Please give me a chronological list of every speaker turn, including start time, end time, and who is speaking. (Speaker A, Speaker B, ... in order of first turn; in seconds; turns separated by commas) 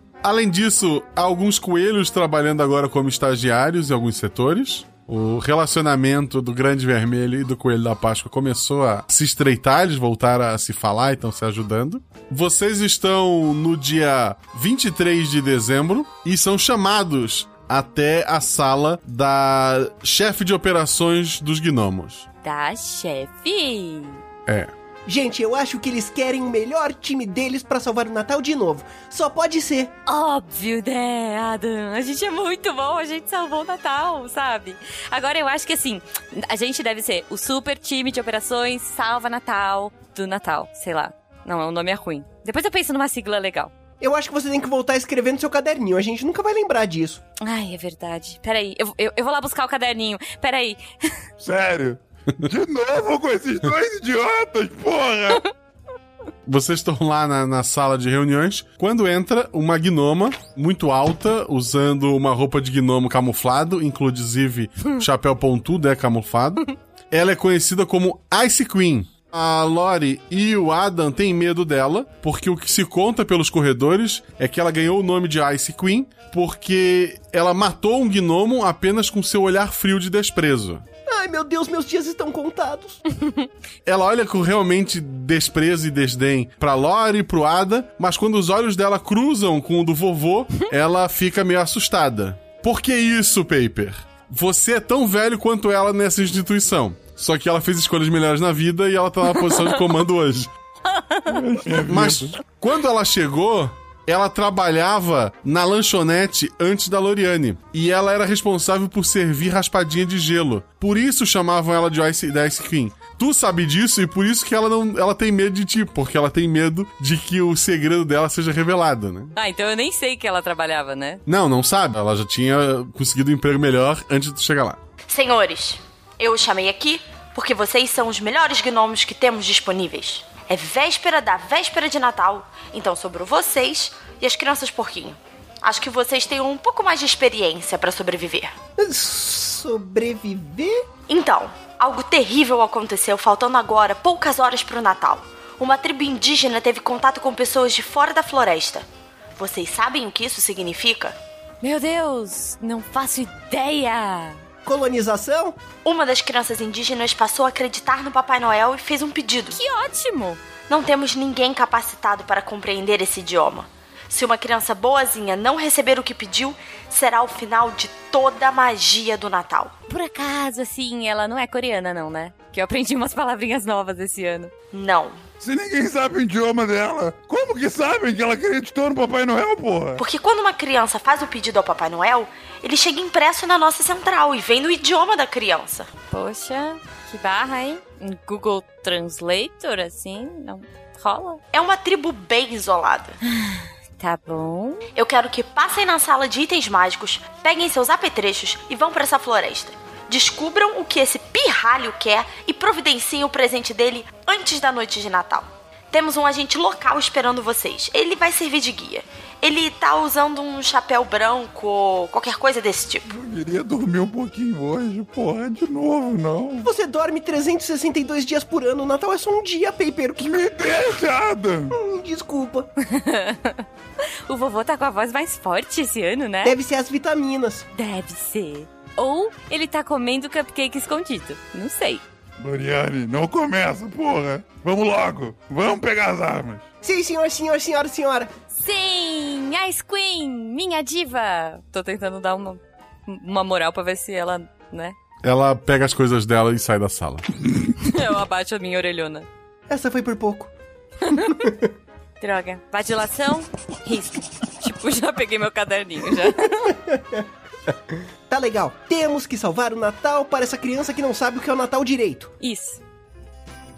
Speaker A: 0.2-22.3, Speaker B: 22.4-24.2, Speaker A: 24.4-24.7, Speaker C: 25.1-29.9, Speaker B: 30.1-43.7, Speaker C: 44.0-47.2, Speaker B: 47.4-50.8, Speaker D: 51.4-55.4, Speaker A: 56.5-80.8, Speaker C: 81.1-83.0, Speaker A: 83.8-100.5, Speaker B: 99.4-99.8, Speaker B: 100.9-101.4, Speaker D: 101.3-102.3, Speaker A: 101.9-119.3, Speaker B: 119.3-121.2, Speaker A: 121.2-124.8, Speaker E: 125.1-138.5, Speaker C: 138.8-140.9, Speaker E: 141.1-151.1, Speaker B: 151.6-154.4, Speaker C: 154.6-155.6, Speaker E: 155.8-159.6, Speaker B: 159.5-160.4, Speaker E: 160.7-169.7, Speaker B: 169.9-174.5, Speaker E: 174.7-175.2, Speaker D: 175.4-180.0, Speaker E: 180.0-185.9, Speaker B: 186.1-191.4, Speaker E: 191.5-193.2, Speaker B: 193.4-194.9, Speaker E: 194.9-213.0, Speaker D: 213.1-216.7, Speaker C: 216.6-220.4, Speaker D: 220.2-221.7, Speaker C: 221.7-222.7, Speaker B: 222.8-223.6, Speaker B: 224.2-226.5, Speaker C: 226.4-227.7, Speaker B: 227.7-232.0, Speaker D: 232.4-236.7, Speaker C: 236.8-238.3, Speaker B: 238.5-244.9, Speaker A: 245.2-247.2, Speaker B: 247.8-249.3, Speaker C: 249.7-250.5, Speaker C: 251.2-251.7, Speaker B: 252.2-256.7, Speaker C: 256.6-257.2, Speaker C: 257.9-262.3, Speaker B: 262.4-262.8